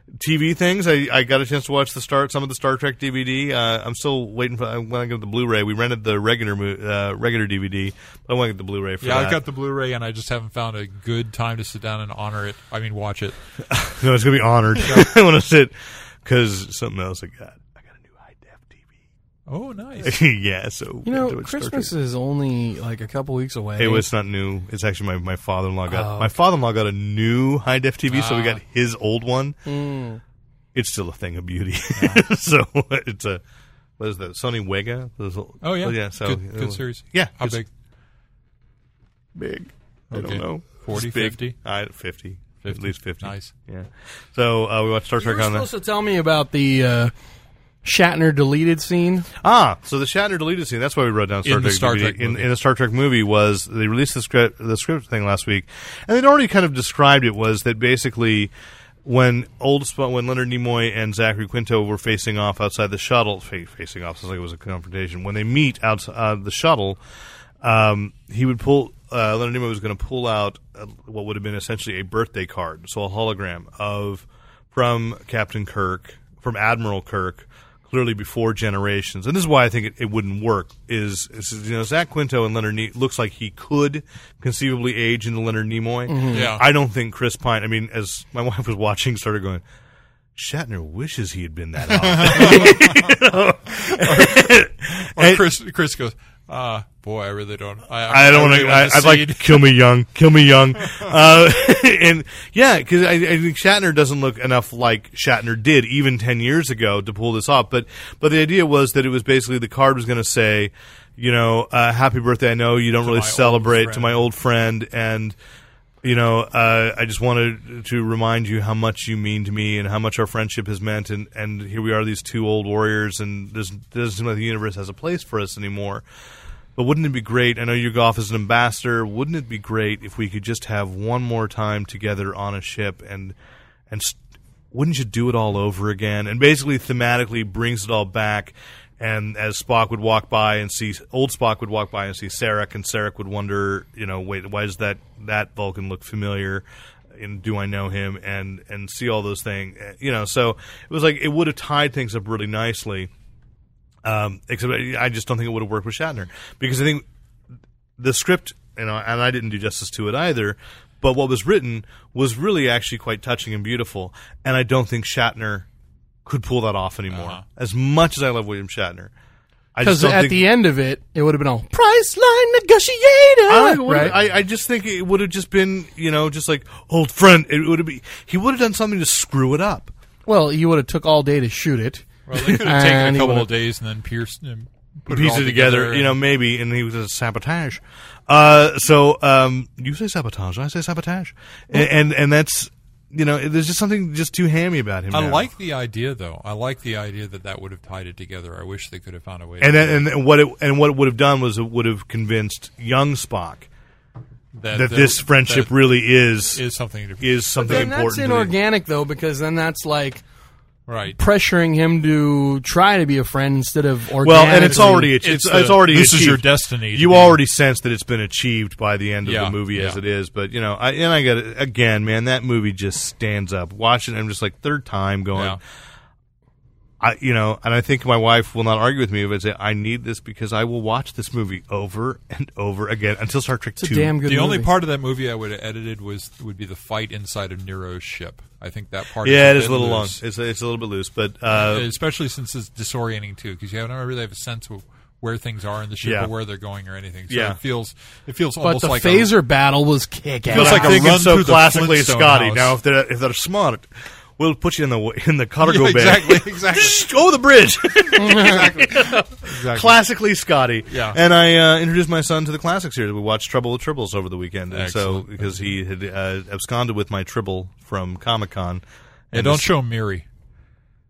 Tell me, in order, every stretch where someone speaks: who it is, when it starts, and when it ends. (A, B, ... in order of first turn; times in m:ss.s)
0:00.2-0:09.4 A
0:09.0-0:13.4 B
0:13.7-0:18.8 A
0:14.8-0:15.1 B
0:19.5-0:20.2 B
0:20.0-0:21.9 A
0:21.0-0:24.1 C
0:23.8-0:29.6 A
0:25.9-0:26.3 C
0:28.1-0:28.6 B
0:29.7-0:30.2 C
0:30.7-0:33.4 A
0:32.0-0:32.2 B
0:34.0-0:37.6 A
0:35.6-0:37.7 B
0:39.4-0:45.7 A
0:40.1-0:41.6 B
0:42.6-0:43.5 B
0:45.2-0:47.1 C
0:47.8-0:49.3 C
0:49.4-0:58.5 A
0:51.4-0:52.5 B
0:59.0-1:07.0 A
1:07.6-1:29.6 A
1:26.1-1:26.5 C
1:26.3-1:26.6 B
1:30.4-1:35.4 A
1:32.2-1:33.0 B
1:33.9-1:39.7 B
1:38.1-1:55.4 A
1:53.0-1:54.2 B
1:56.0-2:06.0 A
2:06.8-2:13.4 A
2:13.9-2:14.2 A
2:14.7-2:33.1 A
2:34.0-2:37.0 A
2:38.0-2:45.7 A
2:46.2-2:49.1 A
2:47.1-2:47.4 B
2:49.8-2:50.5 A
2:49.8-2:54.1 C
2:53.5-2:59.9 A
3:00.3-3:03.5 C
3:02.3-3:06.2 B
3:05.1-3:15.5 A
3:15.1-3:20.0 B
3:19.6-3:23.7 A
3:24.6-3:25.9 B
3:24.7-3:26.6 A
3:26.5-3:27.4 B
3:27.2-3:28.5 A
3:27.6-3:30.2 C
3:30.9-3:31.2 B
3:31.2-3:35.2 C
3:34.2-3:45.6 A
3:34.6-3:37.4 B
3:39.2-3:40.0 B
3:45.3-3:45.6 B
3:47.0-3:54.1 A
3:53.8-3:54.7 C
3:54.2-4:00.2 B
3:59.2-4:01.9 A
4:01.5-4:09.3 B
4:06.0-4:06.3 A
4:07.3-4:07.6 A
4:08.6-4:11.1 C
4:10.5-4:12.8 B
4:10.5-4:29.7 A
4:15.6-4:17.1 B
4:18.2-4:18.6 C
4:18.3-4:20.0 B
4:20.9-4:21.2 B
4:24.7-4:25.7 B
4:29.3-4:30.2 B